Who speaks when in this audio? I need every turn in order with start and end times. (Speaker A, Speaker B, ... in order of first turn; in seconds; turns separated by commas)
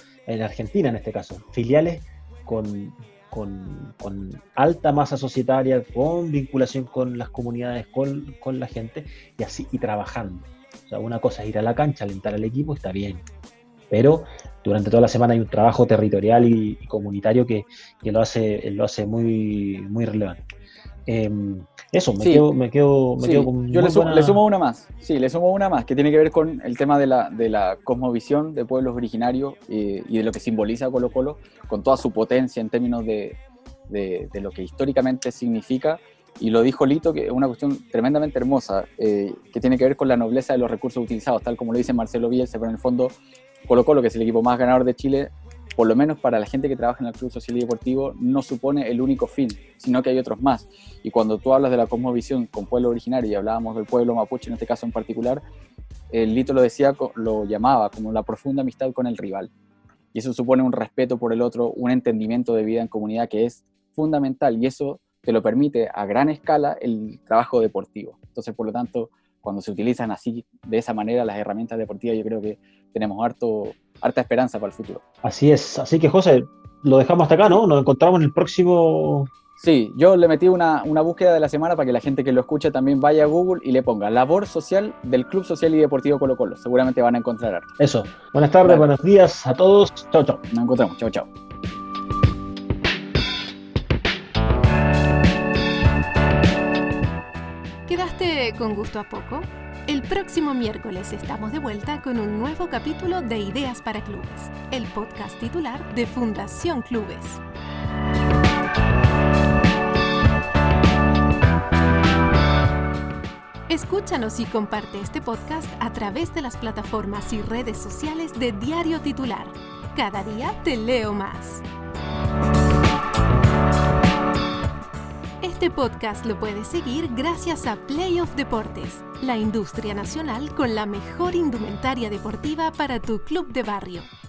Speaker A: 0.3-13.2, Speaker A: 13.9-20.4, Speaker A: 21.1-24.4, Speaker B: 22.2-22.5, Speaker B: 23.2-33.4, Speaker B: 33.9-43.1, Speaker B: 43.7-55.4, Speaker B: 56.1-59.5, Speaker B: 60.1-75.0, Speaker A: 75.2-79.3, Speaker B: 79.6-87.7, Speaker A: 87.8-90.4, Speaker B: 90.5-91.3, Speaker C: 97.9-107.4, Speaker C: 113.7-121.6, Speaker C: 125.4-134.1